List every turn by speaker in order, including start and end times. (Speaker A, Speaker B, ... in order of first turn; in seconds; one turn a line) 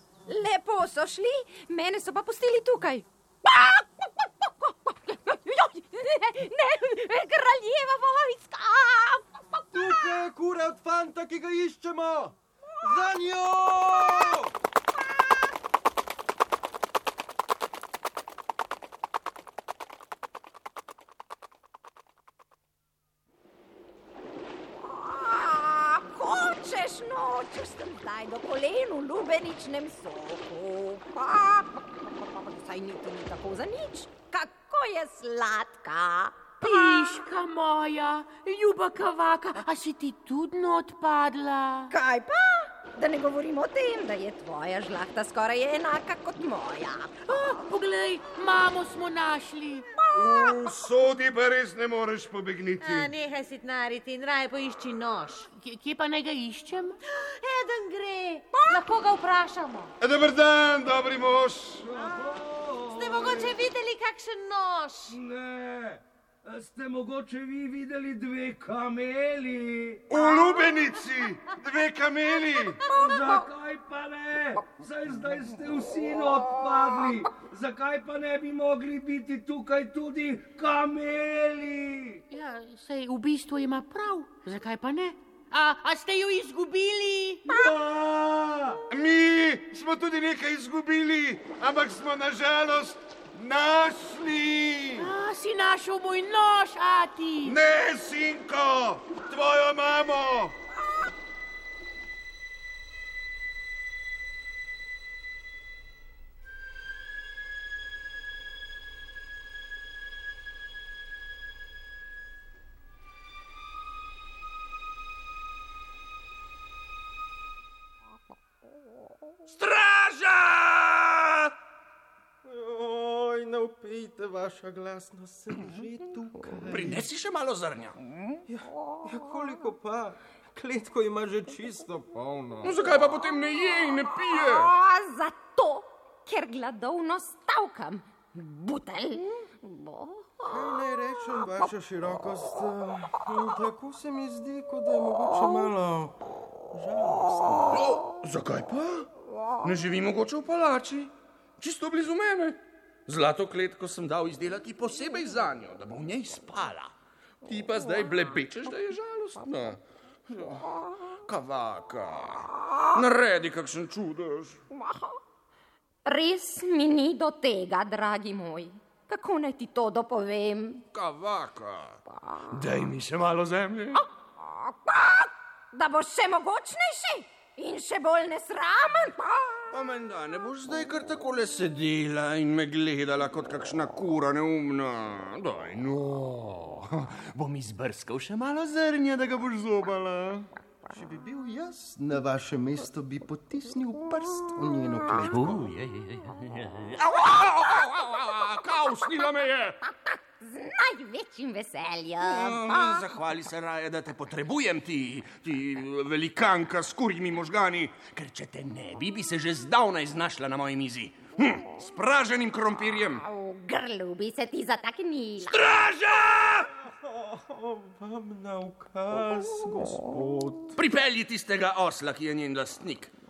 Speaker A: 0.3-9.8
Speaker B: 9.7-14.5
Speaker A: 24.8-37.1
Speaker C: 36.6-41.9
Speaker A: 41.9-47.3
Speaker C: 47.3-49.9
Speaker D: 50.1-53.1
Speaker E: 52.8-55.5
Speaker C: 55.5-57.0
Speaker E: 57.1-59.9
Speaker D: 60.0-61.9
Speaker F: 61.9-63.5
Speaker E: 62.9-65.2
Speaker F: 65.1-70.0
Speaker D: 70.1-72.8
Speaker E: 72.9-73.3
Speaker F: 73.0-82.2
Speaker C: 82.3-87.5
Speaker F: 87.5-88.8
Speaker D: 88.9-95.1
Speaker C: 95.0-97.6
Speaker D: 97.4-100.5
Speaker G: 119.5-121.5
Speaker B: 122.4-127.1
Speaker G: 126.7-128.0
Speaker B: 128.5-132.7
Speaker G: 132.6-134.7
Speaker A: 134.3-140.4
Speaker B: 140.4-146.2
Speaker B: 146.7-147.8
Speaker G: 147.7-149.1
Speaker G: 149.6-156.9
Speaker G: 157.4-160.7
Speaker G: 161.2-164.6
Speaker A: 164.8-165.1
Speaker A: 166.0-170.8
Speaker G: 170.9-174.0
Speaker A: 174.4-179.7
Speaker G: 179.7-190.5
Speaker B: 190.9-195.7
Speaker G: 195.2-199.8
Speaker A: 200.1-203.1
Speaker G: 202.2-213.2
Speaker A: 213.2-215.7
Speaker G: 215.4-216.7
Speaker B: 216.8-220.7
Speaker G: 220.8-223.1